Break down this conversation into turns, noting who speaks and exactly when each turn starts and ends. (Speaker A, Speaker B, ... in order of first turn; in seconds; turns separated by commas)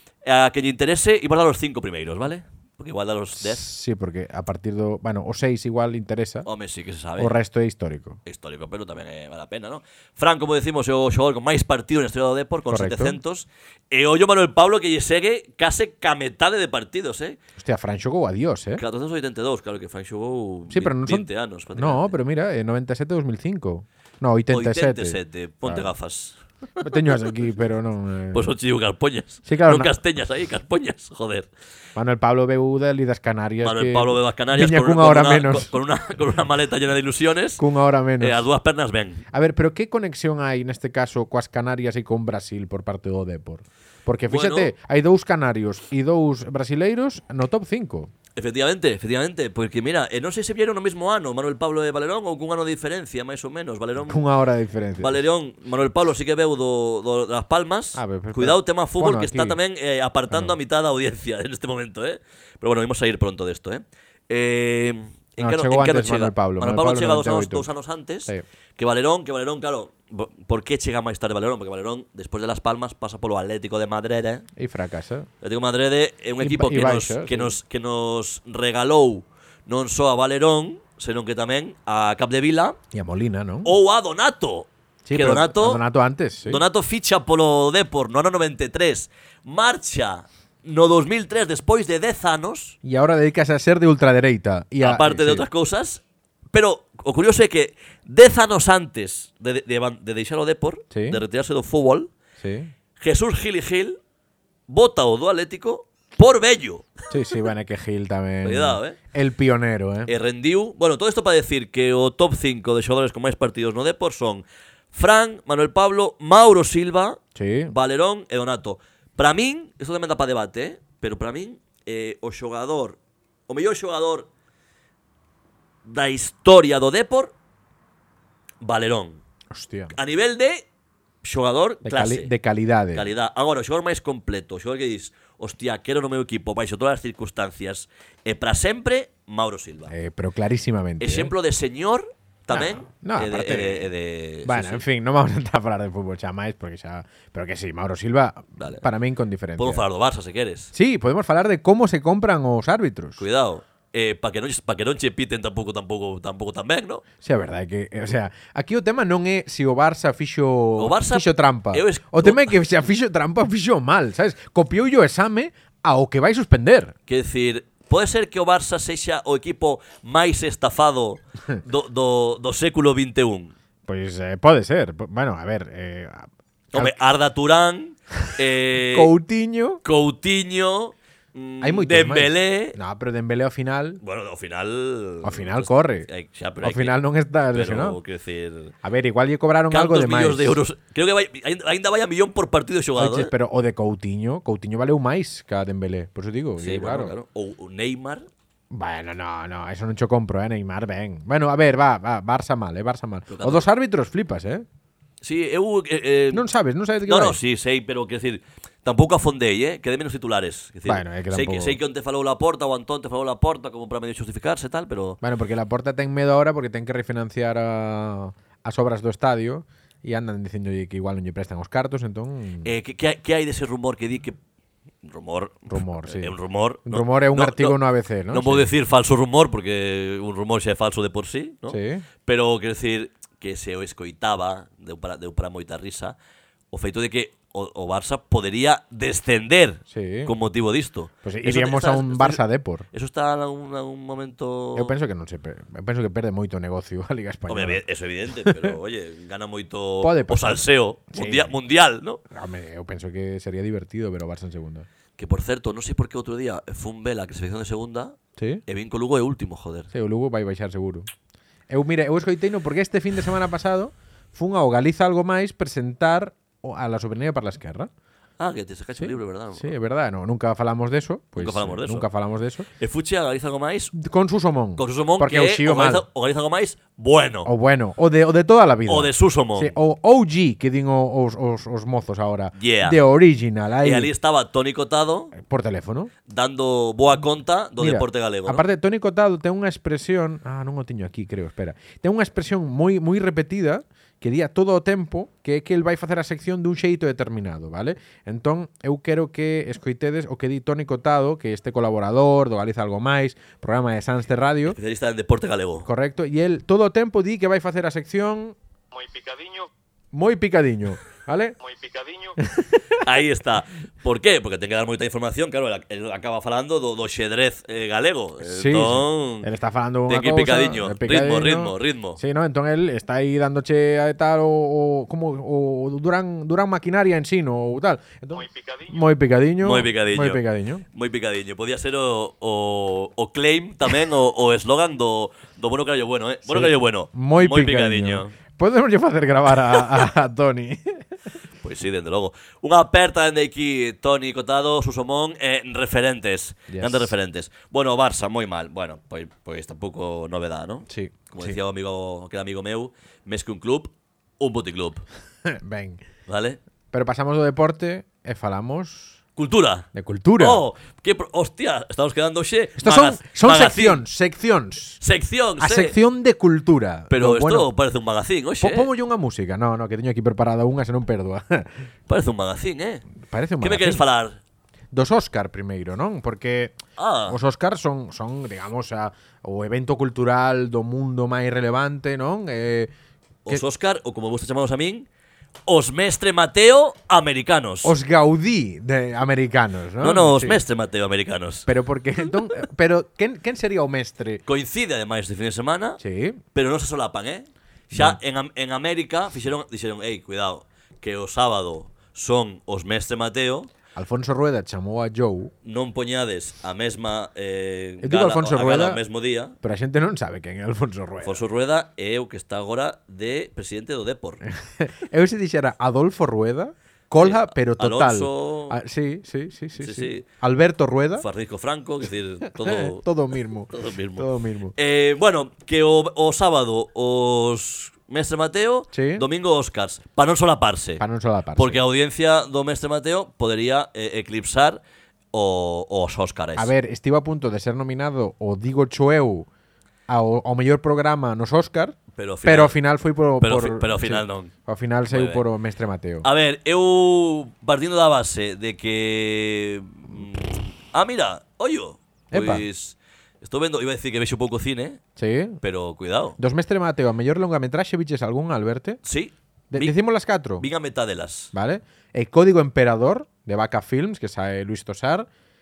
Speaker A: 0.2-3.6, Speaker B: 3.4-6.5, Speaker A: 6.5-7.4, Speaker B: 7.2-8.2, Speaker A: 8.2-17.4, Speaker B: 12.7-13.2, Speaker B: 17.6-18.8, Speaker A: 18.8-22.1, Speaker B: 20.7-25.9, Speaker A: 24.5-26.4, Speaker B: 26.8-28.5, Speaker A: 28.3-31.5, Speaker B: 29.5-29.9, Speaker B: 32.0-35.7, Speaker A: 33.6-37.6, Speaker B: 37.6-38.5, Speaker A: 38.2-39.2, Speaker B: 39.3-48.1, Speaker A: 44.3-44.7, Speaker A: 48.4-54.2, Speaker B: 54.1-55.2, Speaker A: 55.0-74.5, Speaker B: 58.0-59.6, Speaker B: 65.4-67.7, Speaker B: 74.6-75.3, Speaker A: 75.4-82.8, Speaker B: 76.4-77.6, Speaker B: 82.9-83.7, Speaker A: 83.7-85.8, Speaker B: 85.1-86.6, Speaker A: 86.5-92.8, Speaker B: 92.8-95.5, Speaker A: 94.8-102.1, Speaker B: 100.9-101.2, Speaker B: 102.4-102.7, Speaker A: 103.0-104.0, Speaker A: 104.7-107.0, Speaker B: 107.1-110.1, Speaker A: 108.4-109.0, Speaker A: 110.1-117.2, Speaker B: 117.3-117.7, Speaker A: 117.7-124.3, Speaker A: 125.8-127.3, Speaker A: 128.6-129.2, Speaker B: 129.5-129.9, Speaker A: 129.9-130.7, Speaker A: 131.2-132.3, Speaker B: 131.8-133.1, Speaker A: 132.9-139.9, Speaker B: 139.9-141.3, Speaker A: 141.0-144.8, Speaker B: 142.5-143.9, Speaker B: 144.4-149.8, Speaker A: 148.6-148.8, Speaker A: 149.6-150.7, Speaker B: 150.7-153.2, Speaker A: 153.2-157.0, Speaker B: 157.2-166.9, Speaker A: 160.8-162.5, Speaker A: 167.1-173.5, Speaker B: 173.9-176.9, Speaker A: 176.7-179.1, Speaker B: 178.9-179.8, Speaker A: 179.8-182.8, Speaker B: 181.6-184.0, Speaker A: 184.0-187.0, Speaker B: 185.2-186.1, Speaker B: 186.6-188.0, Speaker A: 187.5-188.8, Speaker B: 188.8-190.6, Speaker A: 189.7-193.3, Speaker B: 193.0-197.1, Speaker A: 196.6-198.3, Speaker B: 198.7-204.7, Speaker A: 203.3-203.7, Speaker A: 205.2-206.4, Speaker B: 206.3-207.4, Speaker A: 207.1-215.2, Speaker B: 210.9-211.8, Speaker B: 215.2-222.7, Speaker A: 222.6-224.4, Speaker A: 225.0-227.8, Speaker B: 225.7-228.7, Speaker A: 228.3-236.2, Speaker B: 231.7-232.1, Speaker A: 236.7-242.4, Speaker B: 239.9-240.3, Speaker B: 241.2-242.9, Speaker A: 242.9-244.9, Speaker B: 244.7-247.8, Speaker A: 247.5-252.2, Speaker B: 248.4-248.8, Speaker B: 250.0-251.6, Speaker B: 252.3-254.9, Speaker A: 255.2-259.9, Speaker B: 258.4-258.6, Speaker B: 259.9-261.1, Speaker B: 261.7-267.9, Speaker A: 268.4-269.7, Speaker B: 269.0-272.7, Speaker A: 271.4-272.1, Speaker A: 272.8-273.9, Speaker B: 273.9-276.1, Speaker A: 274.8-277.5, Speaker B: 277.4-284.1, Speaker A: 278.9-279.8, Speaker A: 282.6-283.0, Speaker A: 283.8-285.3, Speaker B: 285.4-286.1, Speaker A: 286.3-288.6, Speaker B: 287.8-304.8, Speaker A: 304.7-305.9, Speaker B: 305.9-308.6, Speaker C: 308.9-309.7, Speaker B: 310.1-311.6, Speaker C: 311.6-312.4, Speaker B: 312.5-312.8, Speaker A: 313.0-319.5, Speaker B: 318.4-330.9, Speaker A: 320.1-322.2, Speaker C: 328.3-329.1, Speaker A: 329.6-338.4, Speaker B: 336.5-341.0, Speaker A: 339.7-340.0, Speaker A: 341.6-355.0, Speaker B: 346.7-347.1, Speaker B: 350.9-351.6, Speaker B: 355.5-356.0, Speaker A: 356.3-356.6, Speaker B: 356.9-359.2, Speaker A: 359.4-359.9, Speaker B: 359.9-360.6, Speaker A: 360.4-364.0, Speaker B: 362.8-365.0, Speaker A: 365.0-366.0, Speaker B: 365.6-367.7, Speaker A: 367.1-368.9, Speaker B: 368.6-371.7, Speaker A: 372.1-373.0, Speaker B: 373.2-374.0, Speaker A: 373.6-374.4, Speaker B: 374.9-382.9, Speaker A: 377.0-377.4, Speaker A: 383.5-385.1, Speaker A: 385.7-387.9, Speaker B: 387.8-390.6, Speaker A: 390.0-391.7, Speaker B: 391.7-394.4, Speaker A: 394.5-396.0, Speaker B: 396.0-396.4, Speaker A: 396.6-403.7, Speaker B: 397.9-398.2, Speaker B: 404.0-405.5, Speaker A: 405.6-409.6, Speaker B: 408.0-409.0, Speaker B: 409.6-411.4, Speaker A: 411.2-414.4, Speaker B: 414.5-421.3, Speaker A: 417.2-418.8, Speaker A: 419.8-420.3, Speaker A: 421.2-423.0, Speaker B: 422.6-424.8, Speaker A: 423.7-431.0, Speaker B: 428.9-429.3, Speaker B: 431.0-431.8, Speaker A: 431.6-434.8, Speaker A: 435.3-436.7, Speaker B: 436.6-439.5, Speaker B: 440.1-446.3, Speaker A: 442.2-442.8, Speaker A: 443.4-444.5, Speaker A: 445.1-445.4, Speaker A: 446.2-455.0, Speaker B: 452.3-452.6, Speaker B: 455.2-455.6, Speaker A: 455.6-456.4, Speaker B: 456.4-459.0, Speaker A: 459.0-460.0, Speaker B: 459.7-460.6, Speaker A: 460.6-461.5, Speaker B: 461.5-465.3